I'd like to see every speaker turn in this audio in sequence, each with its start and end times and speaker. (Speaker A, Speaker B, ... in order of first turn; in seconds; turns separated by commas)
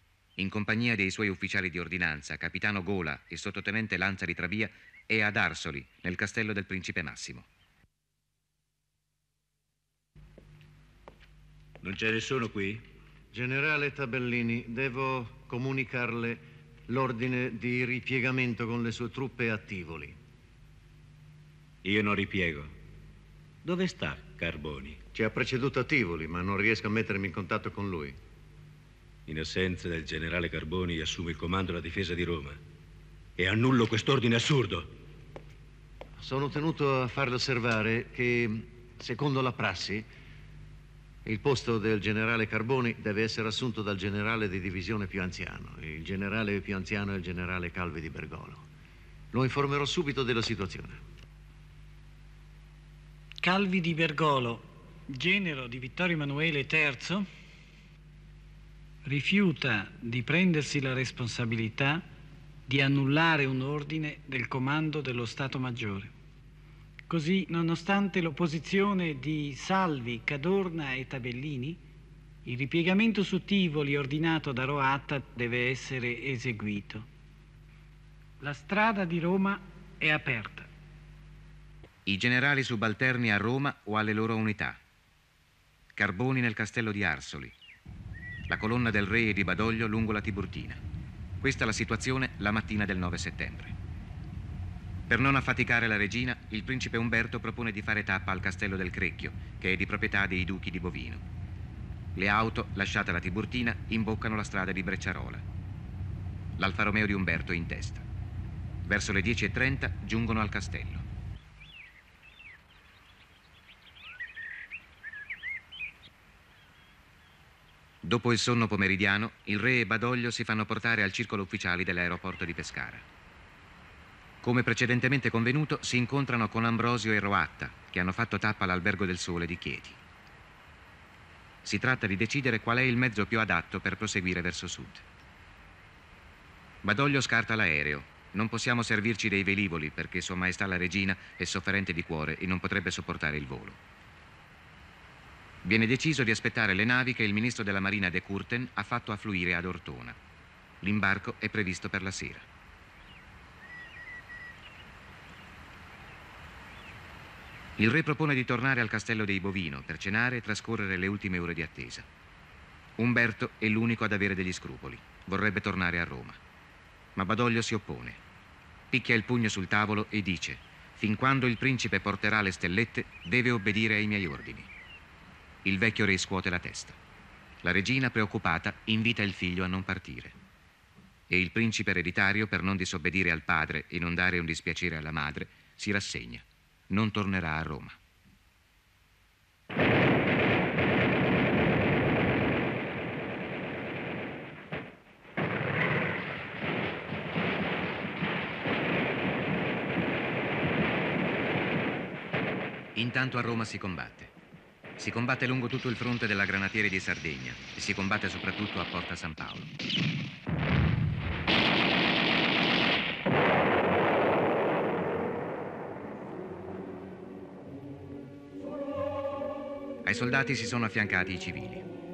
Speaker A: 0.4-7.5, Speaker B: 11.8-12.8, Speaker C: 13.3-20.2, Speaker B: 21.8-22.7, Speaker B: 23.6-25.0, Speaker C: 25.1-28.2, Speaker B: 29.3-32.6, Speaker B: 33.4-34.9, Speaker C: 36.2-40.1, Speaker C: 41.2-48.6, Speaker C: 49.3-51.0, Speaker D: 53.4-57.2, Speaker D: 59.0-62.0, Speaker D: 62.7-66.1, Speaker D: 67.1-71.8, Speaker D: 72.4-77.1, Speaker D: 78.4-80.7, Speaker A: 82.1-84.8, Speaker A: 86.0-87.5, Speaker A: 88.5-90.8, Speaker A: 91.4-93.7, Speaker A: 95.1-101.2, Speaker A: 102.1-105.4, Speaker A: 106.6-108.0, Speaker A: 108.8-111.0, Speaker A: 118.0-123.0, Speaker A: 124.4-130.0, Speaker A: 131.6-135.0, Speaker A: 136.8-143.8, Speaker A: 145.6-150.2, Speaker A: 150.8-152.4, Speaker A: 157.8-162.1, Speaker A: 163.0-166.4, Speaker A: 167.2-168.2, Speaker A: 168.9-174.7, Speaker A: 175.6-177.0, Speaker A: 177.6-180.3, Speaker A: 181.3-188.0, Speaker A: 202.9-204.3, Speaker A: 205.0-209.7, Speaker A: 220.0-221.8